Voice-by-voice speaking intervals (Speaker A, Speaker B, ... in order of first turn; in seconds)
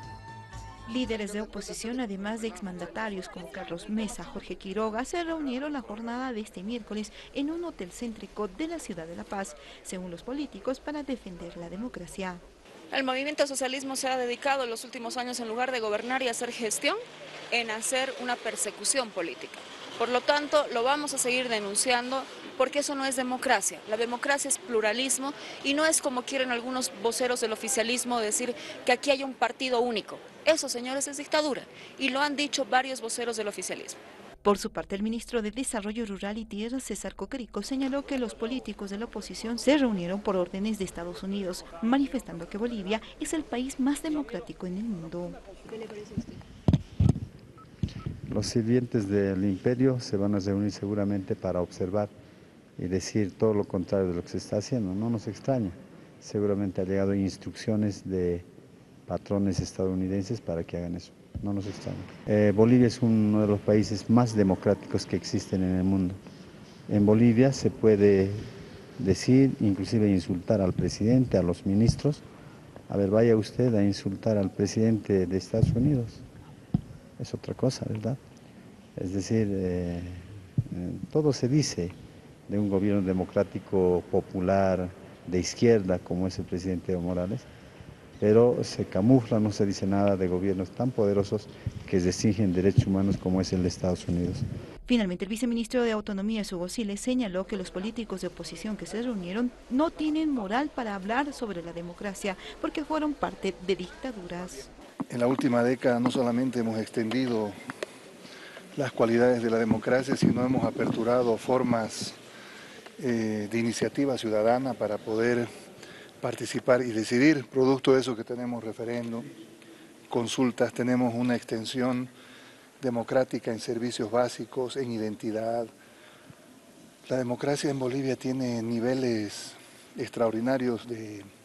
Speaker A: 0.9-12.4, 34.4-45.4, 94.9-104.7
Speaker B: 12.9-17.0, 17.5-34.0
Speaker C: 48.3-52.1, 52.8-58.5, 59.1-66.2, 66.9-72.2, 72.9-76.2, 77.2-78.2, 79.0-82.0, 82.5-87.5, 88.2-94.5
Speaker D: 105.1-107.6, 108.8-112.2, 113.0-115.5, 116.2-119.3, 120.1-122.1, 122.8-125.7, 127.1-131.3